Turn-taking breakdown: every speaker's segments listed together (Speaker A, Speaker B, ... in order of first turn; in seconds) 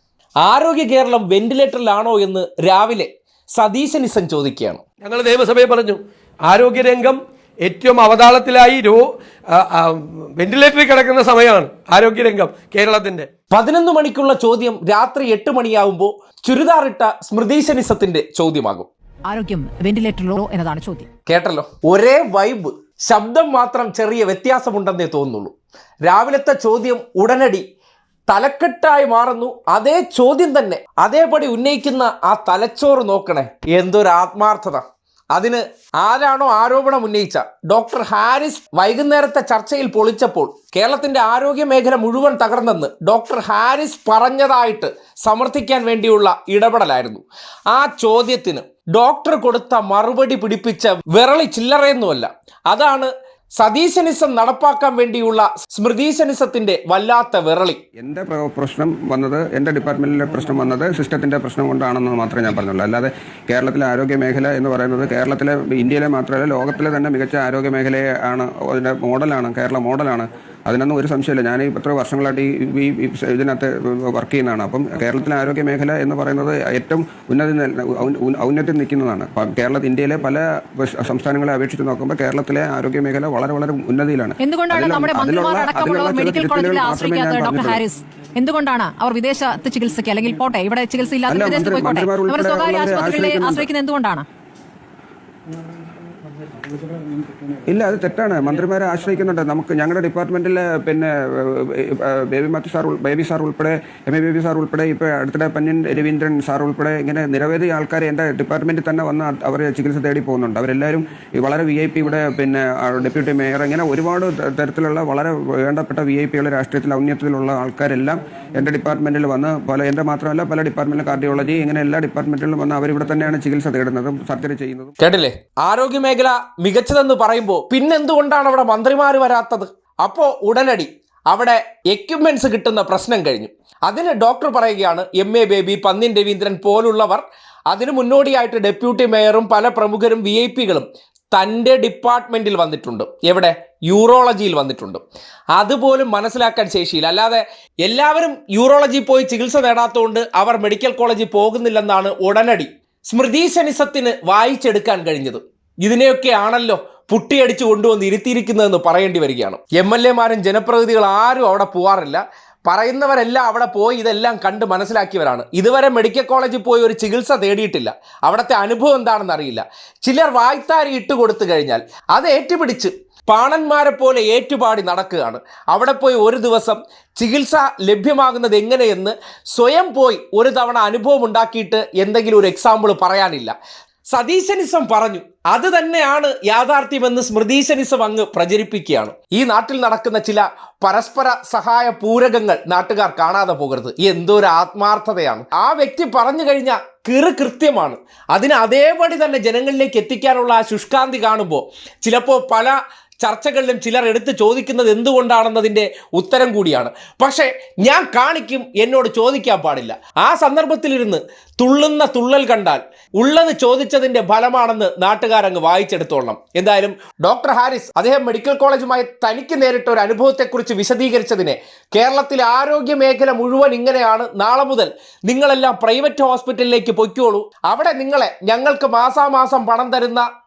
Speaker A: 0.4-4.8, 13.5-18.9, 21.3-25.5, 26.1-27.6, 28.3-34.8, 35.3-57.8, 125.0-145.0, 145.5-183.6, 184.1-230.3
Speaker B: 5.0-13.3
Speaker C: 19.3-21.1, 84.4-94.3
Speaker D: 58.0-87.8, 91.3-93.7, 97.7-124.9